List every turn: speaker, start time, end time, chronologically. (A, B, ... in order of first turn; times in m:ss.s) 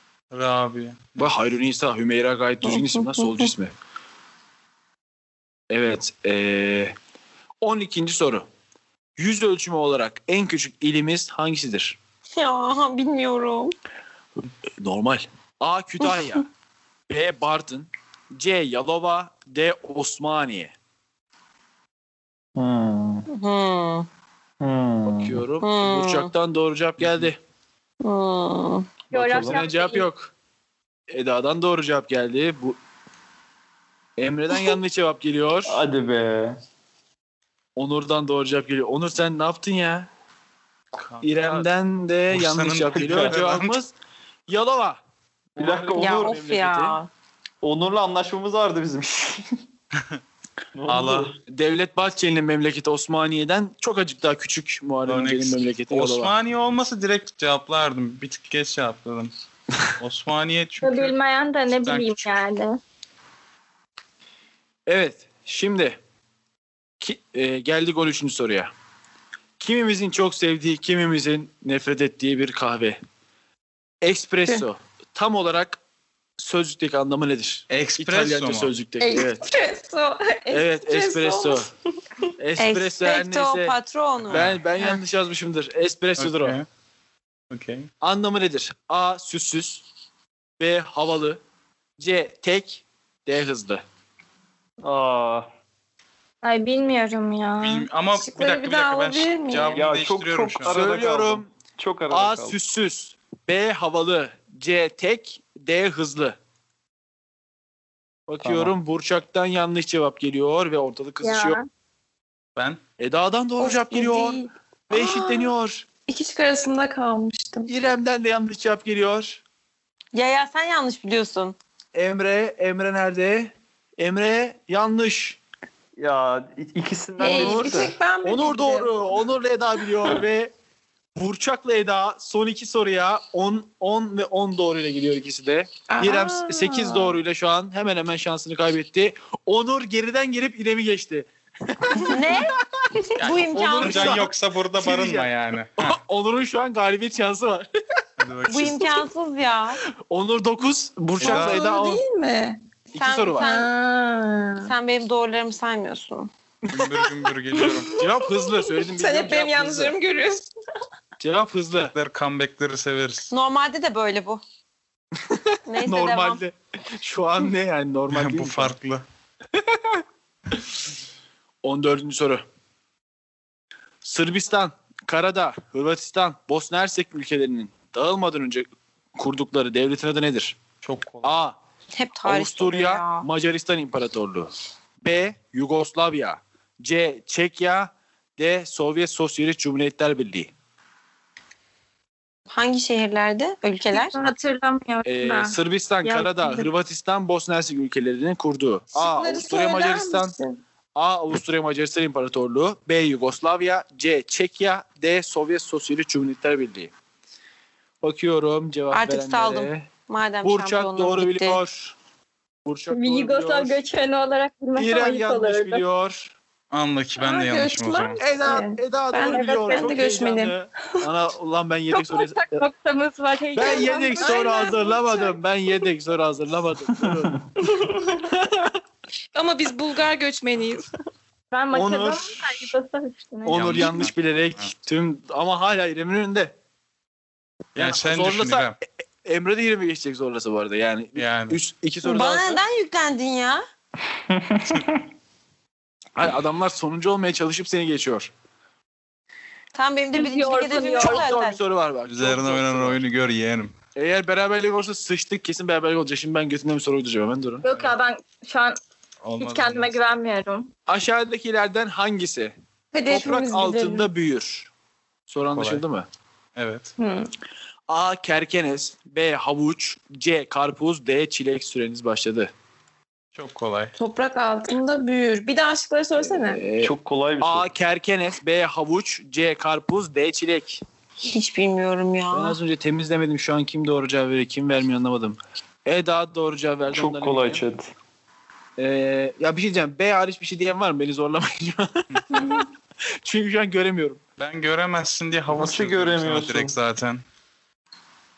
0:00.3-0:01.3 A
0:01.2-0:03.7 B
0:02.6-0:03.5 C
0:05.7-0:07.0 B
0:07.6-0:08.5 B
0:09.2-0:12.0 B
0:12.4-0:13.8 C
0:14.8-0:16.5 B
0:17.1-0:20.7 B
0:22.6-0:23.3 D
0:23.3-0:24.1 C
0:24.6-0:25.4 D
0:25.0-0:27.4 B
0:25.6-0:26.3 C
0:28.0-0:28.9 C
0:29.1-0:29.6 D
0:29.1-0:30.1 E
0:29.2-0:30.3 B
0:31.1-0:32.8 B
0:34.2-0:35.8 B
0:35.7-0:36.6 D
0:37.8-0:40.1 B
0:41.0-0:41.7 A
0:41.2-0:43.9 B
0:42.3-0:43.8 A
0:42.9-0:43.4 D
0:44.5-0:45.0 B
0:45.6-0:47.0 B
0:45.6-0:46.4 D
0:46.0-0:47.1 C
0:47.6-0:49.5 D
0:50.8-0:51.4 D
0:50.9-0:51.3 A
0:51.5-0:56.3 B
0:55.1-0:59.3 A
1:00.0-1:01.1 A
1:00.8-1:02.8 E
1:01.8-1:02.3 A
1:04.9-1:06.0 B
1:07.0-1:08.7 B
1:09.6-1:13.0 B
1:14.0-1:15.8 B
1:16.4-1:19.5 B
1:17.7-1:18.7 A
1:19.0-1:21.7 F
1:20.5-1:21.7 B
1:22.4-1:23.8 B
1:22.6-1:24.5 C
1:24.3-1:26.6 B
1:24.3-1:24.6 A
1:26.2-1:26.7 A
1:27.5-1:27.9 A
1:28.0-1:29.8 B
1:30.6-1:31.4 B
1:32.0-1:33.8 B
1:34.8-1:35.5 D
1:36.4-1:37.9 E
1:37.6-1:40.8 A
1:38.2-1:39.8 F
1:39.7-1:42.6 D
1:40.6-1:41.5 B
1:42.1-1:46.4 B
1:48.3-1:51.6 B
1:48.4-1:48.7 D
1:51.2-1:51.6 E
1:52.6-1:52.8 A
1:53.0-1:55.9 B
1:53.6-1:55.5 F
1:56.1-1:57.7 F
1:57.7-1:59.4 B
2:00.1-2:01.6 C
2:01.9-2:05.4 B
2:06.0-2:08.0 D
2:07.2-2:08.9 F
2:07.3-2:10.5 B
2:11.2-2:22.4 B
2:15.9-2:17.2 F
2:22.0-2:22.6 C
2:23.2-2:24.2 C
2:23.2-2:26.0 A
2:23.4-2:27.7 B
2:28.2-2:29.0 A
2:28.5-2:29.8 C
2:30.1-2:32.0 B
2:31.2-2:31.6 A
2:31.2-2:32.6 F
2:32.9-2:33.5 B
2:33.0-2:33.7 C
2:33.4-2:34.7 F
2:34.6-2:36.3 C
2:36.7-2:38.0 A
2:37.6-2:40.0 B
2:37.6-2:40.5 F
2:41.2-2:41.9 B
2:41.9-2:43.3 A
2:43.3-2:44.4 C
2:45.2-2:48.7 B
2:45.7-2:46.4 C
2:48.1-2:49.0 A
2:49.6-2:50.0 B
2:51.6-2:52.4 B
2:54.0-3:00.6 B
3:00.8-3:01.4 A
3:01.2-3:01.6 B
3:01.9-3:03.3 C
3:02.3-3:10.5 B
3:12.5-3:14.2 C
3:13.9-3:16.7 E
3:15.0-3:20.4 B
3:18.9-3:20.6 F
3:21.0-3:26.9 B
3:28.0-3:29.9 B
3:28.9-3:31.6 C
3:30.4-3:32.0 B
3:32.7-3:33.8 B
3:32.9-3:35.8 E
3:34.8-3:36.3 B
3:36.7-3:38.3 A
3:37.2-3:40.6 F
3:38.2-3:42.6 B
3:39.3-3:40.1 E
3:41.9-3:45.0 E
3:43.6-3:47.4 B
3:44.2-3:45.0 F
3:47.6-3:48.2 F
3:48.2-3:48.7 B
3:49.4-3:50.9 F
3:51.5-3:53.9 E
3:51.7-3:52.7 B
3:53.5-3:56.5 B
3:53.5-3:54.7 A
3:57.8-3:58.8 A
3:57.8-3:58.7 B
3:59.2-4:02.6 B
4:01.2-4:01.6 A
4:02.0-4:03.6 C
4:04.1-4:05.0 D
4:06.2-4:08.3 B
4:09.7-4:11.6 C
4:10.2-4:11.3 E
4:10.7-4:13.0 B
4:12.1-4:13.8 A
4:14.0-4:17.6 B
4:17.6-4:18.8 E
4:19.2-4:20.0 A
4:19.4-4:20.7 E
4:20.9-4:22.5 B
4:22.9-4:24.1 F
4:23.1-4:24.7 B
4:25.3-4:26.1 B
4:25.5-4:25.8 A
4:26.6-4:26.9 A
4:27.0-4:27.3 F
4:27.9-4:32.5 B
4:33.3-4:33.9 A
4:34.0-4:36.6 F
4:36.2-4:40.8 B
4:36.8-4:37.7 D
4:41.2-4:42.6 C
4:42.3-4:47.6 B
4:46.9-4:47.9 D
4:48.8-4:52.6 B
4:52.3-4:52.6 F
4:53.2-4:54.2 B
4:54.4-4:57.2 A
4:55.5-4:56.8 D